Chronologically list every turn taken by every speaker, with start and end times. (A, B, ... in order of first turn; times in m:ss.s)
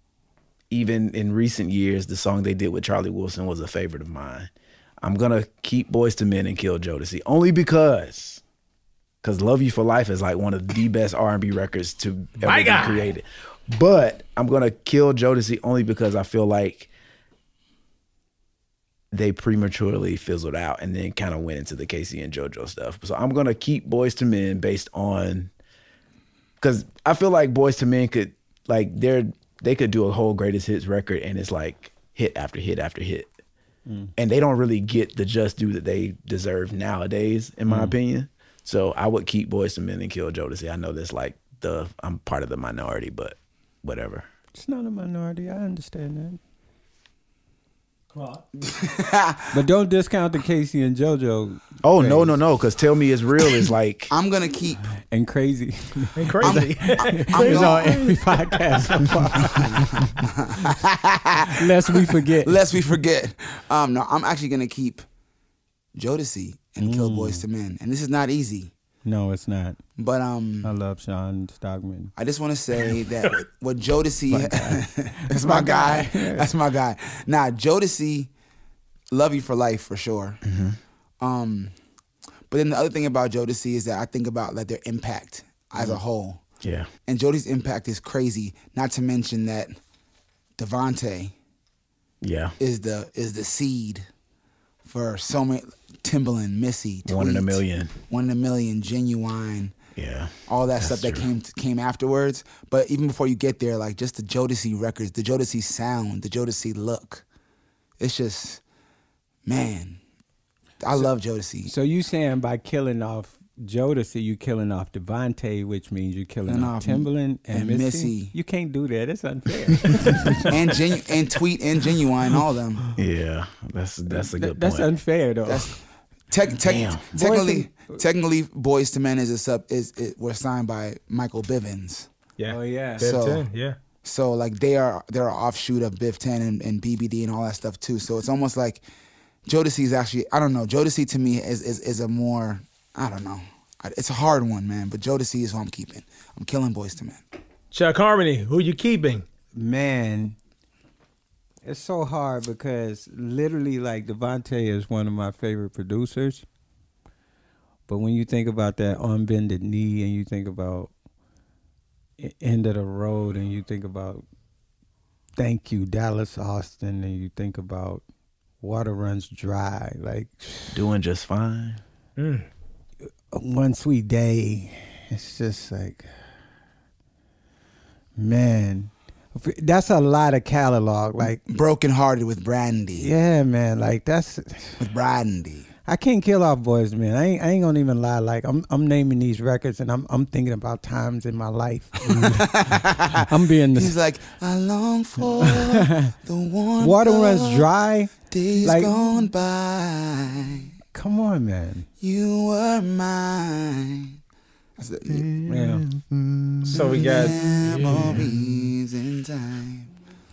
0:00.7-0:04.5 A
0:05.0-0:08.4 A
0:09.2-0:16.9 A
0:12.4-0:13.1 B
0:19.1-0:25.5 A
0:26.6-0:33.3 A
0:33.9-0:34.1 C
0:34.2-0:44.3 A
0:37.7-0:38.0 C
0:44.6-0:46.4 C
0:48.1-0:48.4 B
0:48.6-0:49.5 D
0:49.5-0:52.3 C
0:51.8-0:54.1 A
0:54.1-0:54.9 D
0:55.1-1:00.2 C
0:56.2-0:58.4 B
0:56.4-0:58.0 D
0:59.6-1:05.0 D
1:01.6-1:02.6 C
1:06.0-1:08.7 D
1:06.8-1:07.4 C
1:09.0-1:09.8 C
1:10.0-1:10.7 D
1:10.6-1:12.1 C
1:12.2-1:18.3 D
1:14.3-1:16.5 C
1:19.1-1:20.4 D
1:20.4-1:20.8 A
1:21.2-1:21.7 D
1:22.5-1:26.4 D
1:26.6-1:26.9 A
1:27.1-1:29.8 D
1:30.6-1:31.3 D
1:32.2-1:32.6 A
1:32.6-1:34.1 D
1:34.8-1:39.8 D
1:37.0-1:37.9 A
1:40.0-1:41.3 A
1:40.5-1:47.2 D
1:48.0-1:48.6 D
1:49.5-1:50.0 D
1:50.8-1:51.7 D
1:51.7-2:00.5 C
1:56.5-1:58.3 D
2:00.2-2:02.8 D
2:03.0-2:04.9 A
2:04.1-2:05.7 C
2:05.5-2:05.8 D
2:06.3-2:12.1 D
2:06.7-2:07.0 A
2:07.2-2:08.0 C
2:12.4-2:13.8 B
2:12.5-2:13.1 C
2:13.0-2:13.5 D
2:14.0-2:18.8 D
2:19.5-2:27.2 D
2:27.7-2:29.2 B
2:29.6-2:30.4 C
2:31.6-2:36.4 C
2:37.9-2:40.9 C
2:42.2-2:44.2 C
2:45.4-2:48.0 C
2:48.6-2:50.8 C
2:50.7-2:51.8 A
2:52.2-2:52.5 B
2:53.3-2:56.1 C
2:58.2-3:01.4 C
3:01.4-3:03.1 D
3:03.0-3:04.8 C
3:04.8-3:05.7 D
3:05.9-3:12.5 C
3:12.1-3:17.7 D
3:13.2-3:14.0 C
3:15.4-3:16.1 C
3:16.8-3:19.0 C
3:18.3-3:20.7 D
3:20.9-3:21.9 C
3:22.0-3:24.2 D
3:24.8-3:25.3 D
3:25.1-3:26.8 A
3:25.5-3:25.8 C
3:26.6-3:28.2 B
3:26.7-3:29.9 D